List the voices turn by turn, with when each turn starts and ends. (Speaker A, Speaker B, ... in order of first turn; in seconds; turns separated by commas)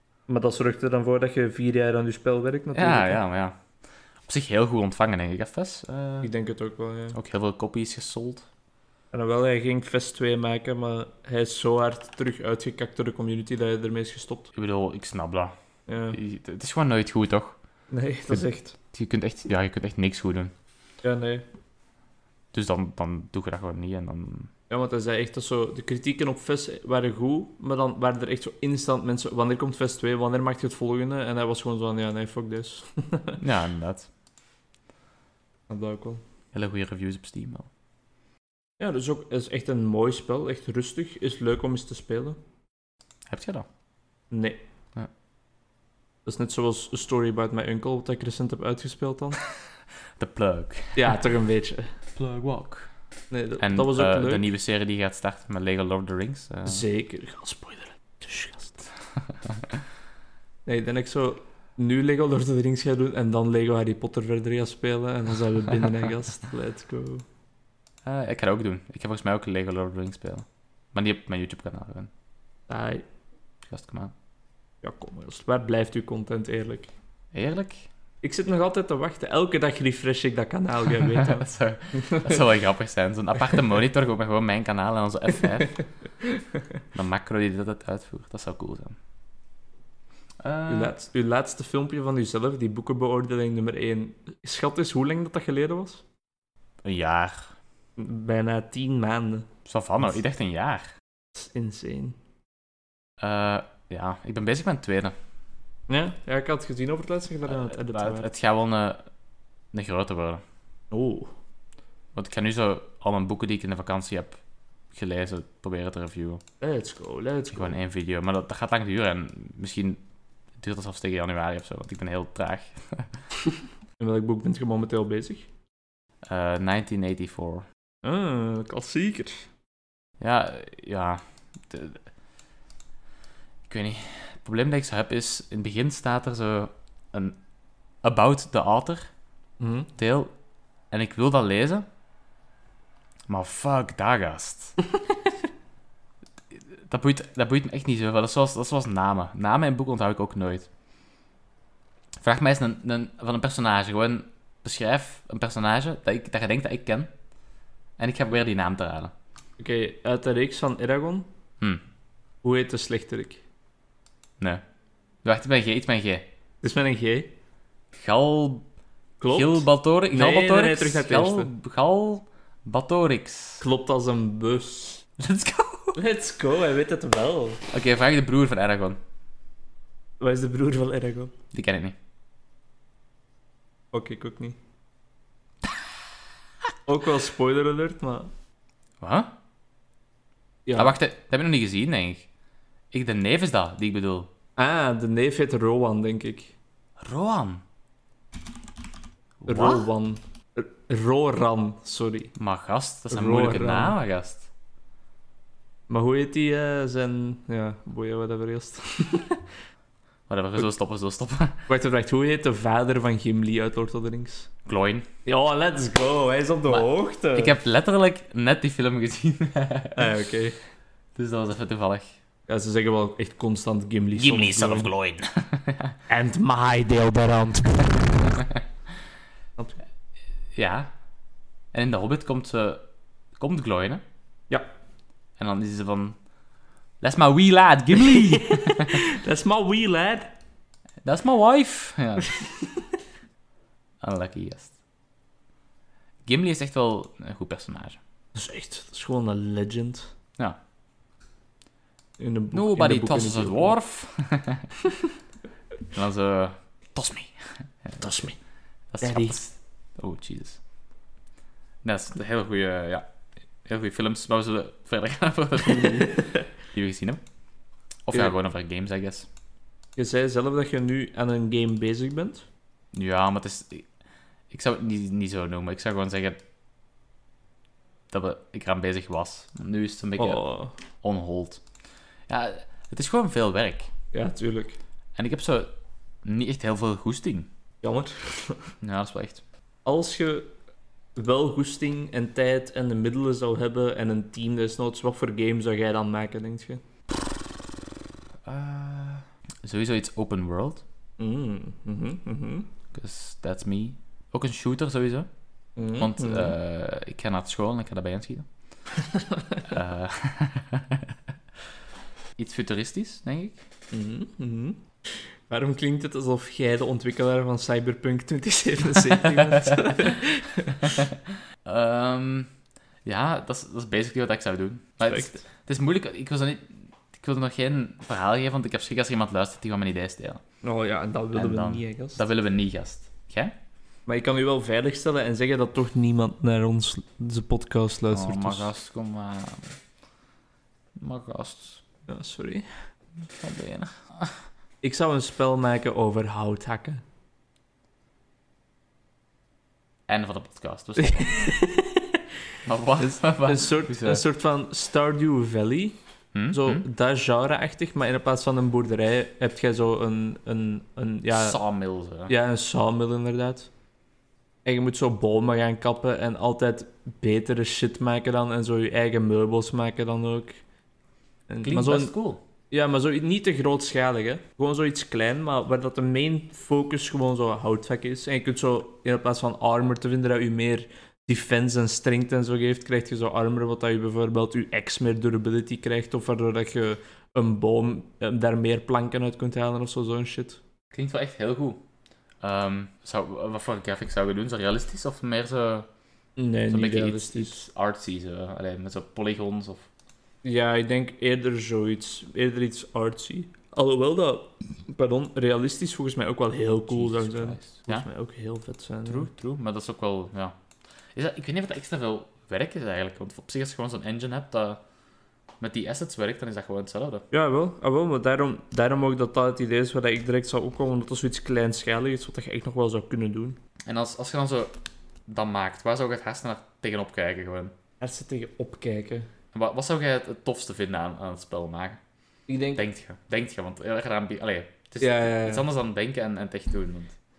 Speaker A: 0.3-3.2, Speaker B: 2.7-3.6, Speaker B: 4.3-6.3, Speaker A: 6.2-7.2, Speaker B: 7.1-8.5, Speaker A: 9.1-14.5, Speaker B: 14.5-15.5, Speaker A: 15.9-16.2, Speaker B: 16.1-17.6, Speaker A: 17.9-18.8, Speaker B: 18.3-20.5, Speaker A: 21.0-21.5, Speaker B: 22.5-24.5, Speaker A: 24.7-33.4, Speaker B: 33.4-34.1, Speaker A: 35.7-36.2, Speaker B: 36.5-37.7, Speaker A: 38.8-42.4, Speaker B: 43.3-43.7, Speaker A: 44.3-44.6, Speaker A: 46.2-49.4, Speaker B: 50.2-51.1, Speaker A: 51.0-52.0, Speaker B: 52.2-52.9, Speaker A: 53.3-54.5, Speaker B: 53.6-56.9, Speaker A: 56.6-58.8, Speaker B: 59.1-59.6, Speaker A: 60.7-67.3, Speaker B: 68.1-72.1, Speaker A: 72.7-73.1, Speaker B: 73.7-74.1, Speaker A: 74.8-76.9, Speaker B: 77.3-77.9, Speaker A: 78.2-82.4, Speaker B: 81.0-85.8, Speaker A: 86.2-86.6, Speaker B: 86.9-89.0, Speaker B: 90.4-90.9, Speaker A: 90.7-96.0, Speaker B: 96.8-97.5, Speaker A: 98.0-99.5, Speaker B: 99.7-100.9, Speaker A: 101.3-102.2, Speaker B: 103.2-105.2, Speaker A: 105.9-108.3, Speaker B: 107.5-109.0, Speaker B: 109.7-110.4, Speaker A: 110.9-111.3, Speaker B: 112.2-114.4, Speaker B: 114.9-116.4, Speaker A: 116.6-117.8, Speaker B: 117.5-120.0, Speaker B: 120.6-123.1, Speaker A: 124.0-125.5, Speaker B: 126.3-127.7, Speaker A: 128.0-129.5, Speaker B: 130.2-132.1, Speaker B: 133.7-137.4, Speaker B: 138.0-139.1, Speaker A: 139.6-139.9, Speaker B: 140.0-140.3, Speaker B: 140.9-141.9, Speaker B: 143.3-144.8, Speaker B: 146.5-150.7, Speaker B: 152.2-157.1, Speaker B: 158.0-159.1, Speaker A: 159.6-161.3, Speaker A: 162.4-163.4, Speaker B: 165.2-166.3, Speaker A: 166.6-167.3, Speaker B: 167.9-168.7, Speaker A: 169.2-171.5, Speaker B: 169.3-173.6, Speaker A: 173.6-175.0, Speaker B: 175.2-176.0, Speaker A: 175.9-177.6, Speaker B: 177.7-179.0, Speaker A: 180.2-181.3, Speaker B: 181.5-182.0, Speaker A: 183.9-184.6, Speaker A: 186.9-188.3, Speaker B: 189.0-189.3, Speaker A: 190.7-191.0, Speaker B: 190.7-192.3, Speaker B: 192.9-194.3, Speaker A: 194.6-196.5, Speaker B: 197.0-197.6, Speaker B: 199.4-199.9, Speaker A: 199.5-202.3, Speaker B: 202.4-204.5, Speaker A: 203.1-204.0, Speaker A: 205.9-209.5, Speaker B: 210.3-211.7, Speaker A: 211.7-214.5, Speaker B: 214.7-215.1, Speaker A: 215.3-217.6, Speaker B: 216.7-220.1, Speaker A: 220.0-220.6, Speaker B: 221.2-222.2, Speaker A: 222.5-224.9, Speaker B: 224.2-226.0, Speaker A: 226.1-228.3, Speaker B: 230.6-230.9, Speaker B: 231.7-232.8, Speaker B: 233.4-234.0, Speaker B: 235.4-236.2, Speaker B: 237.0-239.1, Speaker A: 238.0-240.4, Speaker B: 241.0-242.5, Speaker B: 244.0-244.7, Speaker B: 246.3-248.0, Speaker A: 248.3-250.1, Speaker A: 252.2-253.8, Speaker B: 252.5-254.8, Speaker B: 255.9-258.3, Speaker A: 258.0-258.3, Speaker B: 258.9-260.6, Speaker A: 259.0-259.4, Speaker B: 261.8-263.1, Speaker B: 263.6-267.2, Speaker A: 265.8-266.3, Speaker B: 268.1-269.3, Speaker A: 270.0-272.5, Speaker B: 272.9-273.9, Speaker B: 274.5-276.4, Speaker B: 278.1-280.4, Speaker A: 280.2-280.8, Speaker B: 281.0-281.6, Speaker B: 282.3-283.9, Speaker A: 284.1-284.8, Speaker B: 285.2-285.7, Speaker B: 286.2-287.5, Speaker A: 287.8-288.7, Speaker B: 288.8-289.4, Speaker A: 289.9-290.5, Speaker A: 291.1-296.8, Speaker B: 298.5-300.8, Speaker A: 301.2-302.7, Speaker B: 302.9-305.3, Speaker A: 305.8-306.6, Speaker B: 306.0-308.5, Speaker A: 309.0-309.7, Speaker B: 309.6-311.1, Speaker B: 312.4-313.6, Speaker A: 313.9-321.0, Speaker B: 319.4-320.1, Speaker B: 320.8-322.5, Speaker B: 323.1-330.4, Speaker A: 325.1-325.4, Speaker A: 330.6-332.2, Speaker B: 331.3-333.5, Speaker A: 334.1-338.7, Speaker B: 338.1-339.8, Speaker B: 341.0-341.8, Speaker A: 342.1-342.7, Speaker B: 343.3-344.3, Speaker A: 344.8-347.0, Speaker B: 350.1-351.5, Speaker A: 351.0-352.2, Speaker B: 352.6-354.2, Speaker A: 353.0-356.0, Speaker B: 356.3-356.9, Speaker A: 356.5-361.6, Speaker B: 361.3-362.3, Speaker A: 362.3-363.7, Speaker A: 364.6-370.6, Speaker A: 371.5-372.1, Speaker B: 371.6-372.4, Speaker A: 372.7-390.6, Speaker B: 390.9-391.8, Speaker B: 392.4-395.9, Speaker A: 396.4-397.7, Speaker B: 396.7-399.9, Speaker A: 400.4-409.3, Speaker B: 406.9-408.1, Speaker B: 409.1-410.6, Speaker B: 411.1-414.8, Speaker B: 415.6-417.2, Speaker A: 417.3-423.6, Speaker B: 423.9-424.7, Speaker B: 425.3-427.8, Speaker A: 428.0-429.3, Speaker B: 429.5-432.0, Speaker A: 432.5-432.8, Speaker B: 432.8-437.2, Speaker A: 435.0-435.6